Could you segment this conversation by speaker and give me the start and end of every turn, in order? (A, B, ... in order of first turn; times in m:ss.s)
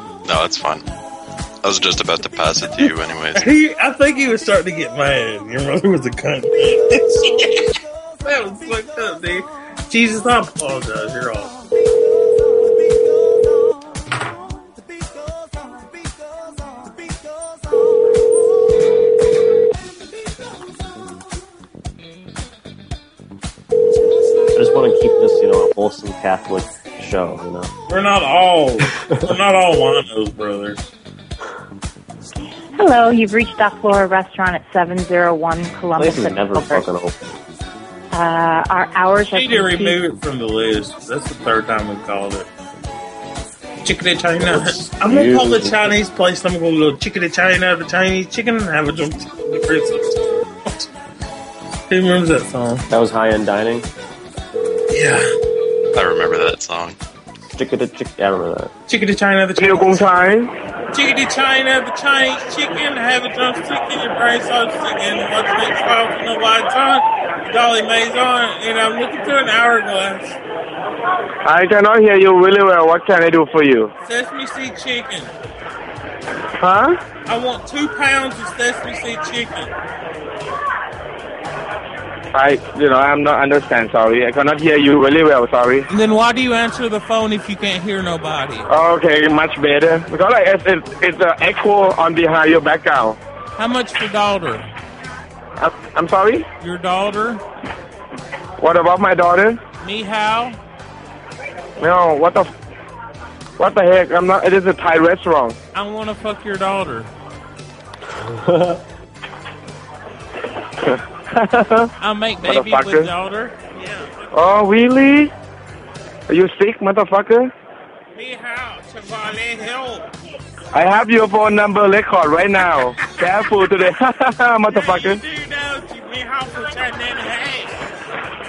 0:00.2-0:00.8 A
0:01.6-0:03.4 A
0:03.4-0:11.5 B
0:24.5-0:27.7 C
0:27.9-0:30.9 B
0:29.0-0:29.3 C
0:32.8-0:36.9 D
0:36.0-0:37.2 C
0:38.1-0:40.0 D
0:39.3-0:42.5 B
0:43.8-0:50.9 B
0:44.4-0:46.0 C
0:51.9-0:52.9 B
0:52.9-0:53.9 C
0:54.9-0:55.3 B
0:55.9-0:57.0 A
0:57.5-0:58.7 C
0:58.9-1:00.1 B
0:59.6-1:00.5 E
1:00.9-1:10.4 B
1:11.4-1:13.9 E
1:14.0-1:15.3 B
1:16.6-1:17.0 E
1:17.3-1:19.7 B
1:22.3-1:25.9 E
1:25.9-1:28.7 B
1:28.7-1:33.2 E
1:33.6-1:34.7 B
1:35.6-1:36.5 E
1:36.6-1:37.4 B
1:38.6-1:39.6 E
1:39.8-1:40.6 B
1:41.8-1:42.5 E
1:43.6-1:45.6 E
1:45.7-1:47.1 B
1:48.1-1:48.8 C
1:50.9-1:51.9 E
1:52.0-1:54.3 B
1:52.4-1:53.1 E
1:54.3-1:55.3 E
1:56.3-1:57.5 E
1:58.2-2:00.1 B
2:00.7-2:05.2 E
2:04.7-2:07.8 B